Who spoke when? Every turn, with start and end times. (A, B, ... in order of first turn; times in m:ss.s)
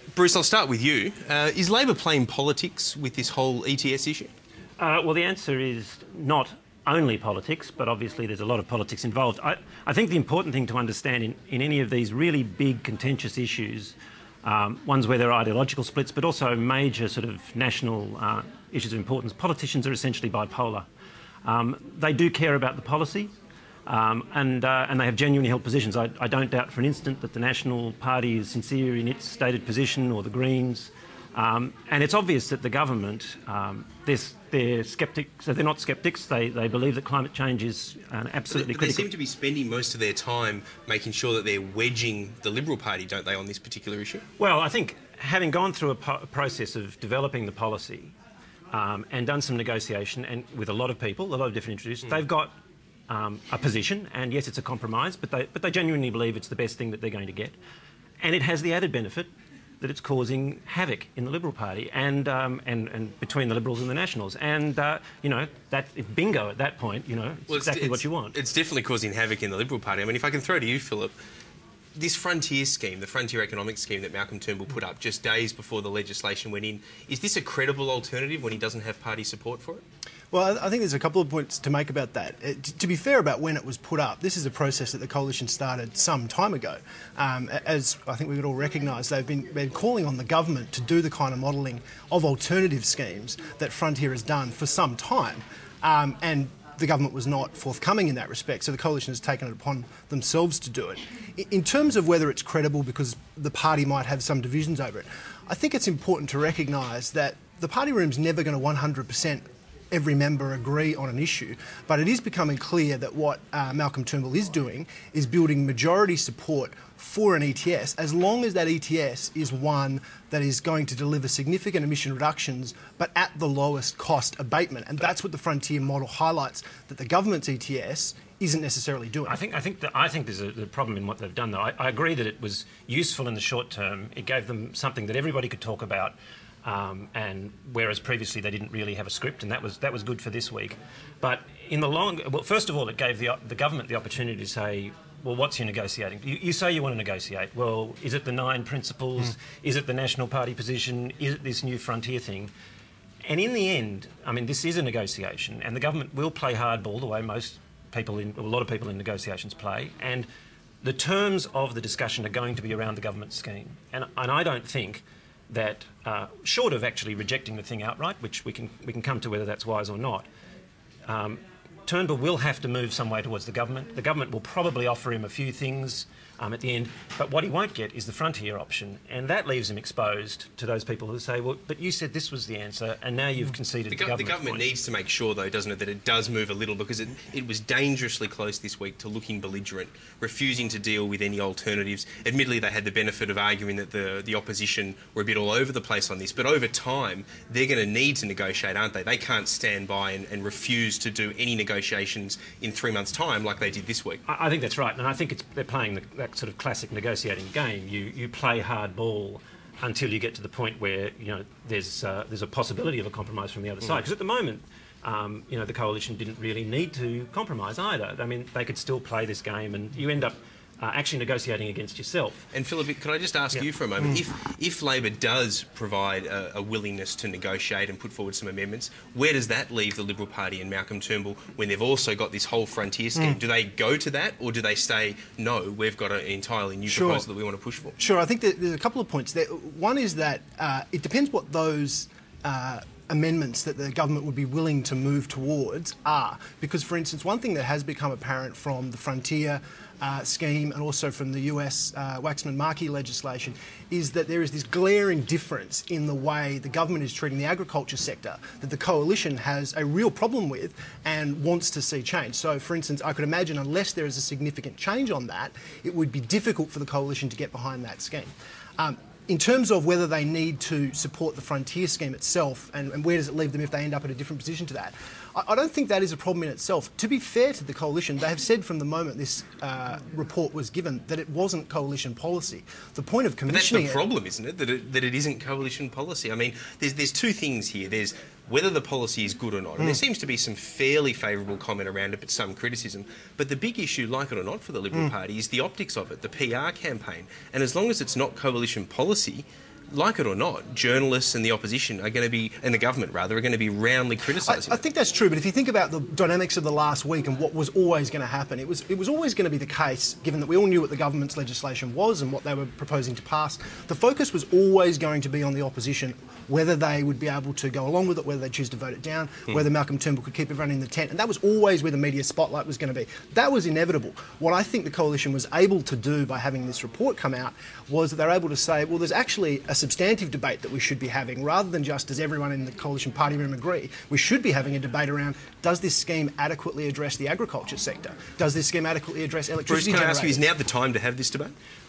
0:00.1-0:04.3 A
0:04.8-0:20.9 B
0:21.4-0:23.3 B
0:23.8-0:39.1 B
0:38.5-0:44.2 A
0:44.4-0:48.1 B
0:48.7-0:52.5 B
0:53.1-0:57.6 B
0:58.2-0:59.3 B
0:59.8-1:08.4 B
1:07.5-1:11.1 A
1:12.0-1:19.8 A
1:20.3-2:09.4 C
2:09.2-2:32.5 B
2:33.2-2:40.3 B
2:40.8-2:50.3 B
2:51.0-3:04.7 B
3:03.9-3:24.2 A
3:24.2-3:42.4 B
3:42.5-3:57.9 A
3:56.9-3:57.2 C
3:58.0-4:44.0 C
4:43.5-5:04.8 A
5:04.4-5:40.4 C
5:39.7-5:41.5 A